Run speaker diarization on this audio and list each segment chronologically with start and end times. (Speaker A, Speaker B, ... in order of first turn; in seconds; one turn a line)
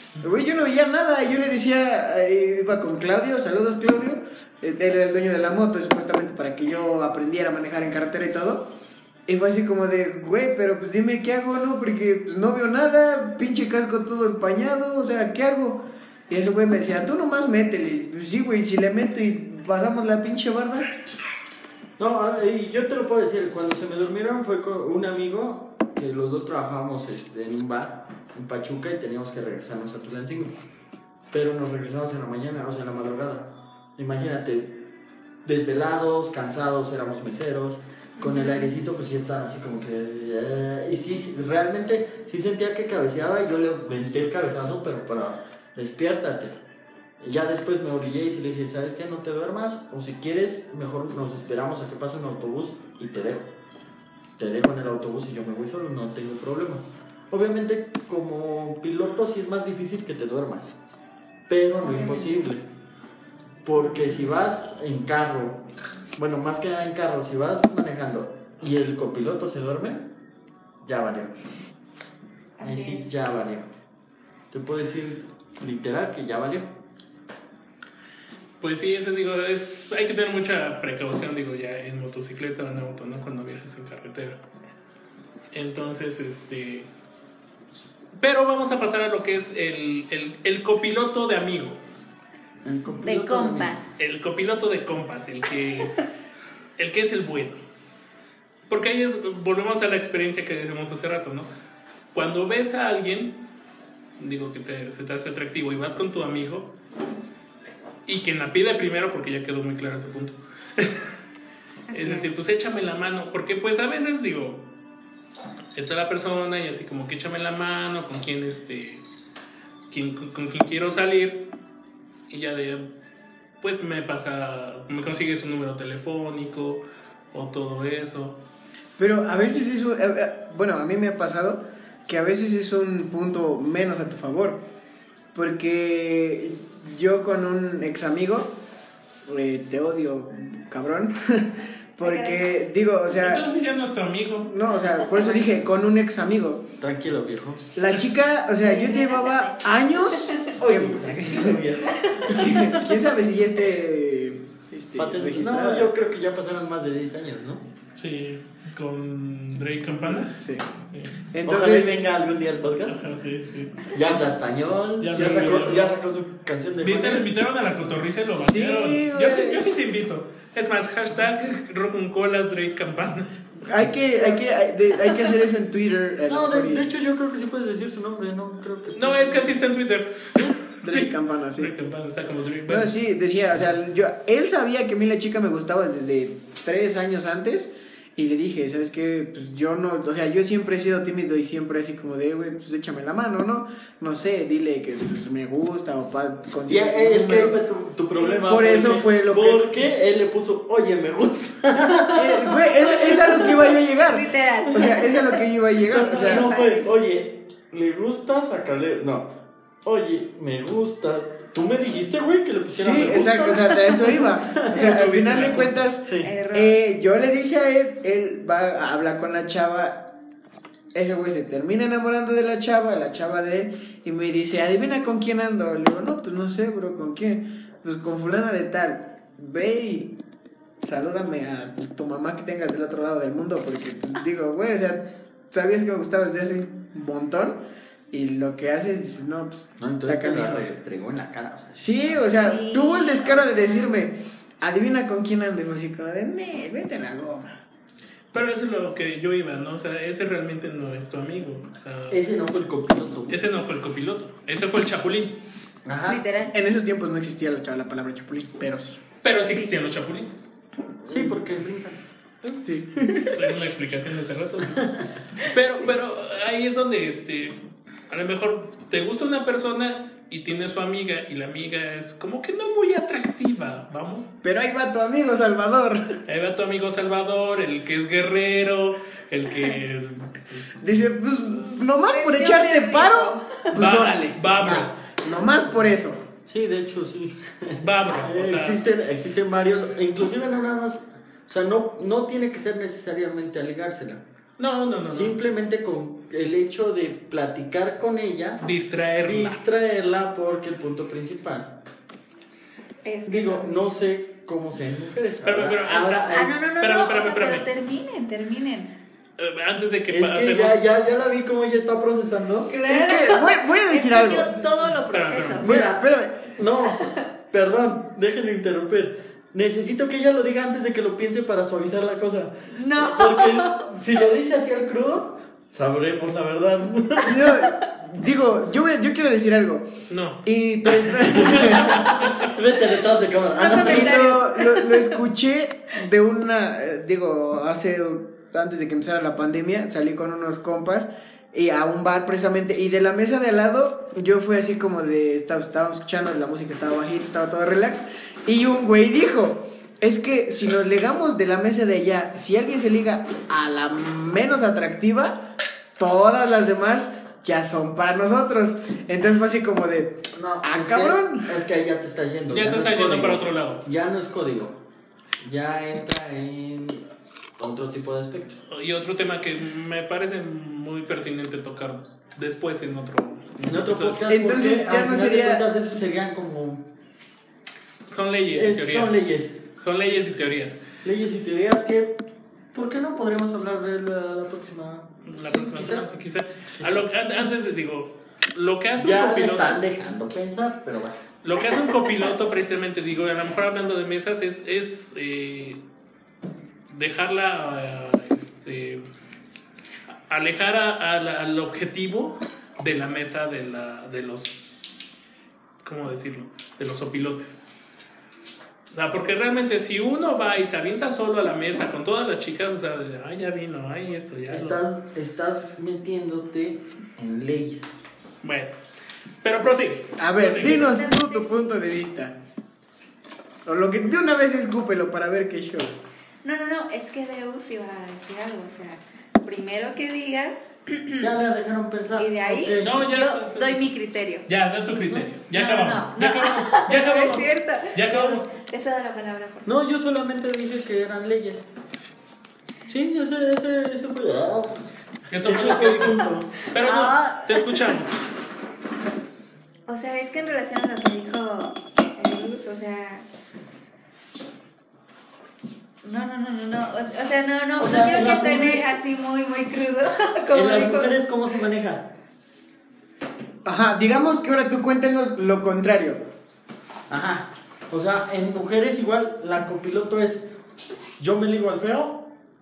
Speaker A: 0.2-8.7
Speaker A: 9.3-20.9
Speaker B: 22.0-30.6
Speaker B: 31.3-34.9
Speaker B: 35.5-46.6
Speaker C: 38.2-38.7
Speaker B: 47.2-53.5
Speaker B: 54.4-60.8
Speaker B: 61.5-62.7
Speaker C: 61.8-62.4
Speaker B: 63.6-70.1
Speaker B: 70.8-71.6
Speaker C: 72.6-73.1
Speaker B: 72.6-73.7
Speaker B: 74.5-76.8
Speaker D: 78.6-84.4
Speaker D: 85.5-86.9
Speaker D: 88.2-91.8
Speaker B: 92.6-93.7
Speaker C: 93.0-94.0
Speaker D: 94.0-96.0
Speaker D: 96.8-97.6
Speaker D: 98.7-101.5
Speaker D: 102.1-103.4
Speaker D: 104.2-106.7
Speaker D: 108.1-111.1
Speaker C: 111.9-112.3
Speaker D: 111.9-114.7
Speaker D: 115.8-119.0
Speaker D: 119.9-121.5
Speaker D: 122.3-122.9
Speaker D: 123.6-128.4
Speaker A: 129.0-134.6
Speaker A: 135.3-138.6
Speaker A: 139.3-143.4
Speaker C: 142.0-142.5
Speaker D: 143.1-144.5
Speaker A: 144.4-146.7
Speaker C: 144.7-145.6
Speaker B: 146.8-147.7
Speaker A: 147.8-151.6
Speaker C: 148.6-150.5
Speaker B: 150.6-152.7
Speaker C: 151.9-152.6
Speaker A: 152.3-155.9
Speaker B: 155.0-157.7
Speaker D: 158.0-160.3
Speaker A: 160.2-160.7
Speaker A: 161.3-162.0
Speaker B: 161.4-163.0
Speaker D: 162.9-163.9
Speaker B: 163.9-167.3
Speaker D: 165.0-165.9
Speaker A: 165.2-165.7
Speaker D: 166.8-173.4
Speaker A: 168.3-169.7
Speaker A: 173.6-176.9
Speaker B: 176.3-179.6
Speaker D: 178.9-182.9
Speaker A: 180.8-181.7
Speaker A: 182.7-197.6
Speaker B: 196.7-202.6
Speaker A: 198.3-199.7
Speaker A: 202.1-206.5
Speaker C: 202.8-205.4
Speaker B: 205.8-214.9
Speaker C: 206.0-206.9
Speaker A: 212.7-220.1
Speaker D: 214.7-215.8
Speaker B: 216.0-216.3
Speaker C: 216.2-216.8
Speaker A: 220.9-230.2
Speaker A: 230.8-240.7
Speaker B: 239.8-242.3
Speaker A: 241.8-247.6
Speaker C: 242.4-244.0
Speaker D: 248.3-252.2
Speaker B: 252.1-253.4
Speaker D: 253.3-255.4
Speaker B: 255.8-256.2
Speaker C: 256.1-256.5
Speaker A: 256.5-259.0
Speaker D: 259.2-260.4
Speaker B: 261.1-262.0
Speaker A: 261.1-261.4
Speaker A: 262.5-263.4
Speaker D: 263.3-267.6
Speaker B: 264.7-265.0
Speaker D: 268.1-274.3
Speaker A: 274.4-276.2
Speaker D: 276.3-280.6
Speaker A: 280.8-286.2
Speaker C: 282.1-283.6
Speaker D: 283.8-284.9
Speaker B: 286.5-294.2
Speaker D: 287.8-288.8
Speaker D: 294.6-295.4
Speaker B: 295.1-298.6
Speaker D: 298.6-299.6
Speaker B: 299.2-301.8
Speaker C: 303.1-303.9
Speaker B: 303.3-306.6
Speaker D: 305.4-307.7
Speaker C: 306.3-308.9
Speaker D: 309.4-310.8
Speaker B: 310.1-312.7
Speaker C: 312.7-316.0
Speaker A: 312.9-314.6
Speaker D: 315.1-315.6
Speaker B: 315.6-327.5
Speaker A: 315.6-316.5
Speaker C: 316.9-317.3
Speaker C: 322.7-323.9
Speaker A: 327.2-329.9
Speaker D: 330.1-330.4
Speaker A: 330.4-332.2
Speaker B: 330.9-334.4
Speaker D: 331.5-332.5
Speaker C: 333.6-335.2
Speaker A: 333.7-361.6
Speaker B: 360.4-364.8
Speaker D: 362.5-363.9
Speaker B: 365.4-367.1
Speaker B: 367.6-368.6
Speaker D: 368.7-374.2
Speaker B: 373.7-376.9
Speaker A: 374.3-375.6
Speaker D: 378.1-379.2
Speaker B: 378.5-379.6
Speaker D: 379.8-380.8
Speaker B: 381.0-386.1
Speaker D: 385.2-389.8
Speaker B: 386.8-387.1
Speaker B: 389.0-391.2
Speaker D: 391.4-395.8
Speaker D: 396.9-399.0
Speaker D: 400.1-404.6
Speaker D: 405.8-407.6
Speaker D: 408.9-414.8
Speaker B: 414.5-418.0
Speaker D: 418.4-418.8
Speaker D: 419.4-421.0
Speaker A: 420.2-422.4
Speaker C: 420.5-421.7
Speaker A: 423.7-425.9
Speaker C: 426.4-431.3
Speaker B: 431.2-433.0
Speaker C: 432.2-434.5
Speaker D: 432.8-433.8
Speaker D: 434.5-438.5
Speaker C: 435.5-439.7
Speaker B: 439.6-441.7
Speaker B: 442.9-444.9
Speaker D: 445.3-448.1
Speaker B: 445.4-446.5
Speaker C: 446.8-447.9
Speaker C: 449.9-453.3
Speaker C: 456.0-461.1
Speaker B: 457.8-458.9
Speaker B: 460.5-462.1
Speaker A: 463.6-466.2
Speaker B: 467.1-470.5
Speaker B: 471.2-472.3